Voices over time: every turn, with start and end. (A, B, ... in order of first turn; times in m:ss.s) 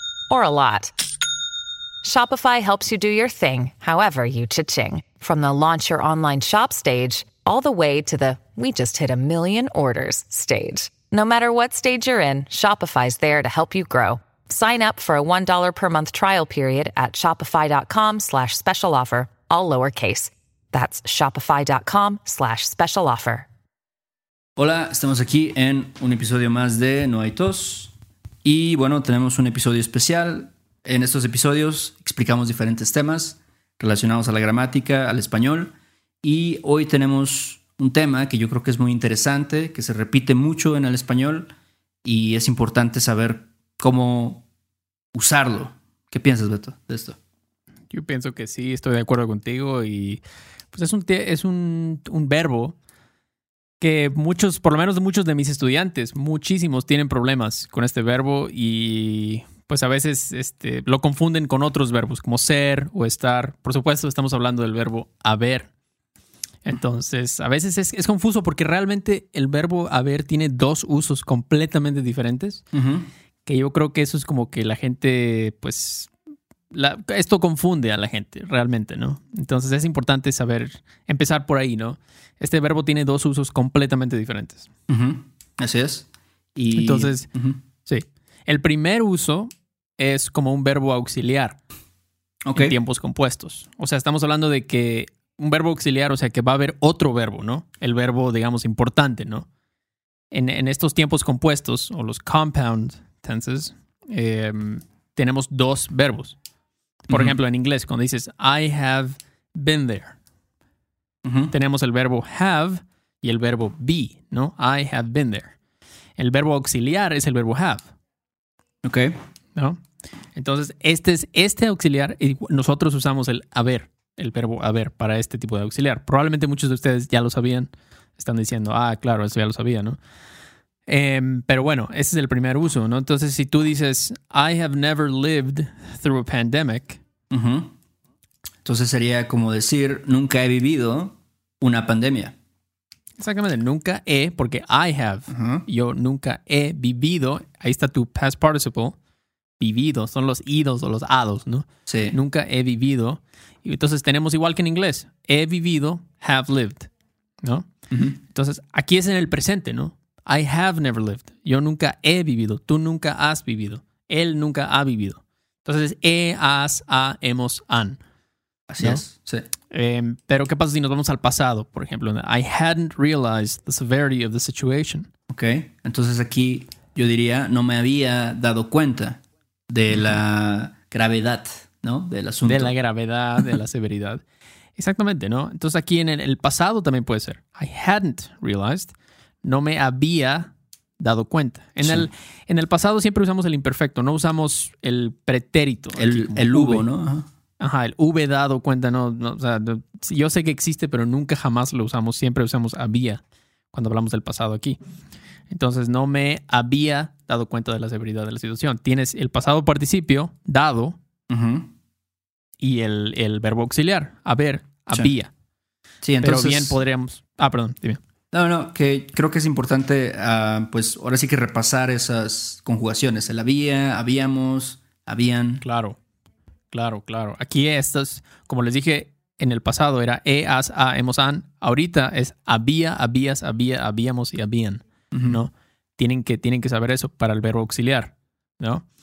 0:00.3-0:00.9 A
0:02.0-0:23.5 A
0:24.6-0:41.5 B
0:42.0-0:44.4 B
0:45.1-0:47.2 B
0:47.9-0:50.2 C
0:50.7-0:52.7 C
0:53.8-1:05.7 C
1:06.6-1:12.6 C
1:12.7-1:13.1 B
1:13.4-1:16.1 C
1:16.7-1:24.7 C
1:24.9-1:27.6 B
1:26.7-1:27.3 C
1:27.9-1:31.6 C
1:32.4-1:32.8 B
1:32.5-1:39.5 C
1:40.3-1:46.4 C
1:47.1-1:47.4 B
1:47.1-1:50.2 C
1:51.2-1:51.5 B
1:51.5-1:55.6 C
1:56.2-1:57.9 C
1:58.8-1:59.2 B
2:00.3-2:10.0 C
2:10.9-2:17.0 C
2:17.3-2:17.7 B
2:18.6-2:22.4 B
2:23.2-2:29.0 C
2:25.3-2:25.6 B
2:29.6-2:36.9 C
2:31.9-2:32.2 B
2:37.4-2:37.7 C
2:37.9-2:38.2 B
2:38.2-2:48.0 C
2:48.7-2:49.5 B
2:49.7-2:55.1 C
2:55.3-3:02.7 B
2:59.9-3:00.2 C
3:02.4-3:04.2 C
3:04.8-3:16.9 C
3:11.8-3:12.1 B
3:16.0-3:17.3 B
3:17.6-3:23.2 C
3:23.7-3:24.8 C
3:25.5-3:31.0 C
3:31.3-3:31.7 B
3:32.6-3:35.3 C
3:36.0-3:36.8 B
3:36.2-3:38.0 C
3:38.3-3:45.6 B
3:45.6-3:46.0 C
3:46.7-3:58.9 C
3:55.1-3:55.4 B